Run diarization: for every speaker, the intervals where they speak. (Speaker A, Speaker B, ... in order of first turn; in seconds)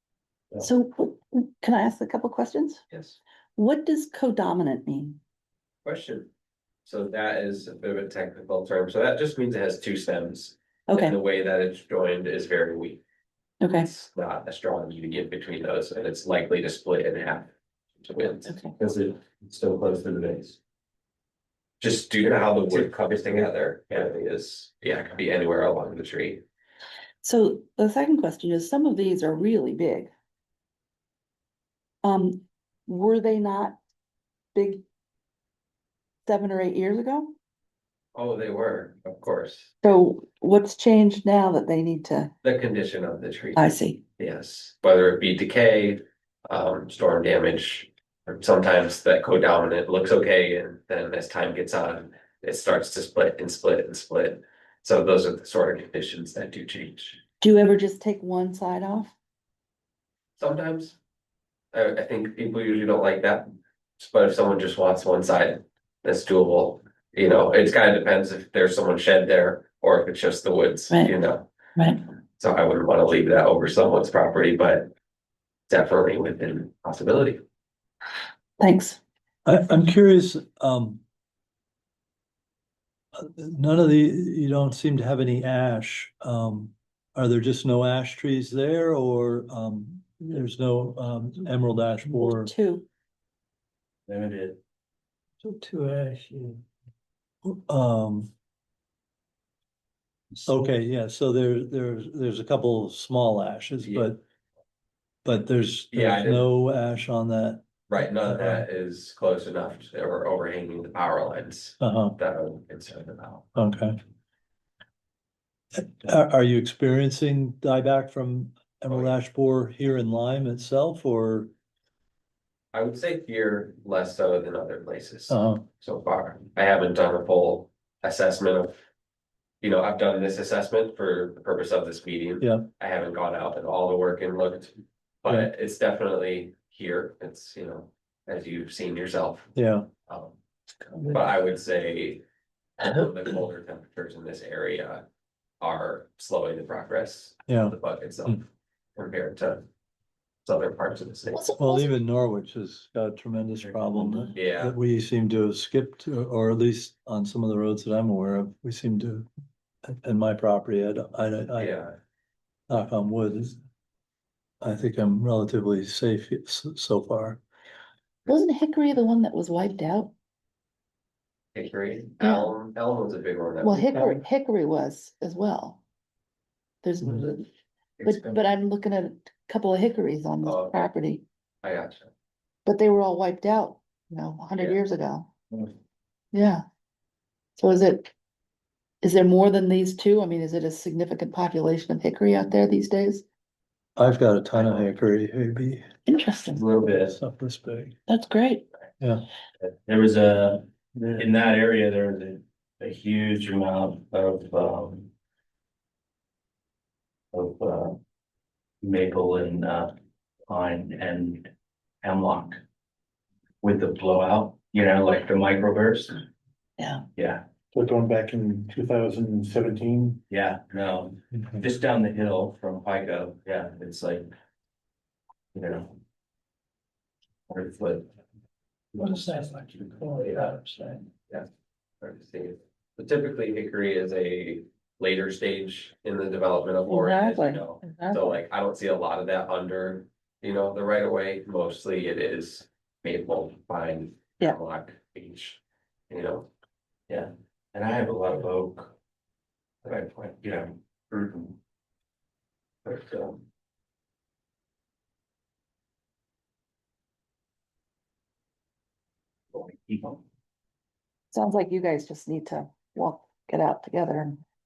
Speaker A: 0.6-2.8, 3.5-5.2, 10.9-11.2, 13.6-13.9, 18.5-18.7, 27.2-30.1, 32.0-33.8, 34.5-34.8, 36.2-37.3, 39.8-42.3, 43.5-44.0, 57.4-59.1, 70.9-71.2, 71.8-72.0, 78.6-79.0, 92.1-92.8, 151.3-151.9, 168.3-170.1, 172.2-172.5, 173.6-175.8, 176.8-177.5, 178.0-181.2, 182.7-185.3, 186.3-186.6, 187.6-188.1, 189.0-193.2, 196.1-196.7, 198.1-198.6, 216.8-217.0, 236.8-238.4, 261.3-264.4
Speaker B: 2.9-3.2, 5.8-6.3, 6.8-13.0, 13.8-20.5, 21.8-26.4, 38.1-39.7, 42.4-57.2, 60.4-61.0, 61.7-71.5, 72.4-74.9, 75.7-77.4, 103.8-104.1, 105.9-106.5, 107.9-113.5, 122.7-128.8, 129.6-139.5, 140.1-140.3, 141.0-142.2, 142.8-145.1, 145.6-149.7, 150.4-151.4, 154.3-154.7, 161.6-161.9, 171.5-173.9, 180.4-180.9, 181.6-182.1, 194.6-194.9, 232.0-246.5
Speaker C: 79.4-81.0, 83.2-92.5, 95.4-96.6, 97.4-98.3, 100.4-104.2, 105.2-108.7, 111.8-112.2, 113.5-114.0, 115.7-121.5, 125.3-125.7, 132.4-132.7, 139.5-139.9, 147.5-147.7, 151.6-159.3, 159.9-161.8, 162.7-163.6, 164.6-167.4, 193.9-195.8, 196.8-198.0, 199.0-199.3, 229.0-231.0
Speaker D: 94.1-94.6, 153.7-154.0, 178.0-178.4, 196.5-197.2, 199.6-205.1, 207.3-208.0, 208.8-209.9, 210.5-211.5, 212.0-212.6, 213.6-216.2, 217.2-217.4, 220.3-224.3, 225.5-225.9, 227.5-228.1, 229.0-230.2, 247.1-248.9, 249.8-251.6, 252.8-253.4, 259.5-260.2
Speaker E: 217.7-220.2